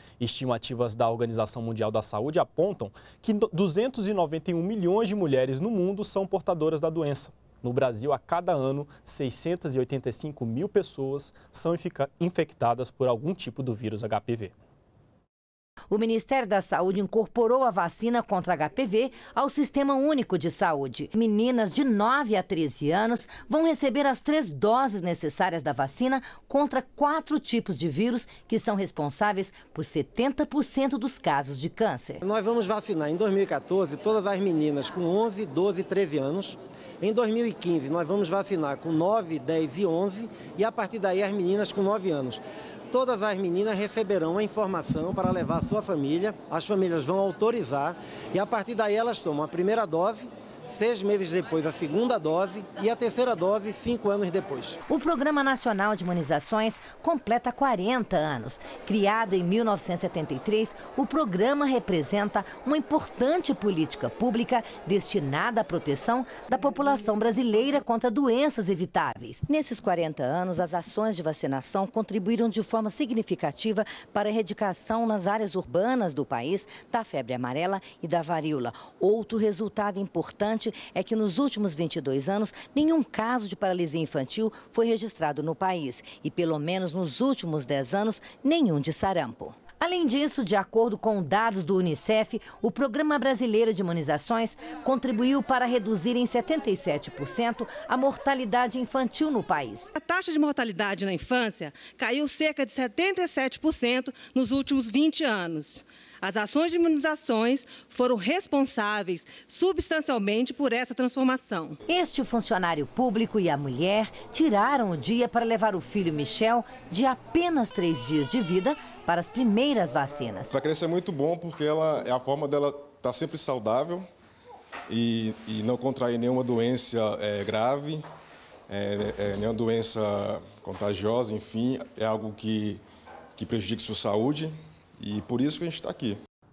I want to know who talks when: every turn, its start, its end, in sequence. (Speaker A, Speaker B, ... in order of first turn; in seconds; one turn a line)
Speaker A: 0.2-14.5
Speaker B: 15.9-32.2
Speaker C: 32.2-42.4
Speaker C: 42.9-54.7
Speaker B: 54.9-99.9
Speaker D: 99.9-111.8
Speaker B: 111.9-120.5
Speaker E: 120.5-124.0
Speaker E: 124.9-128.0
Speaker E: 128.7-132.8
Speaker E: 133.3-136.2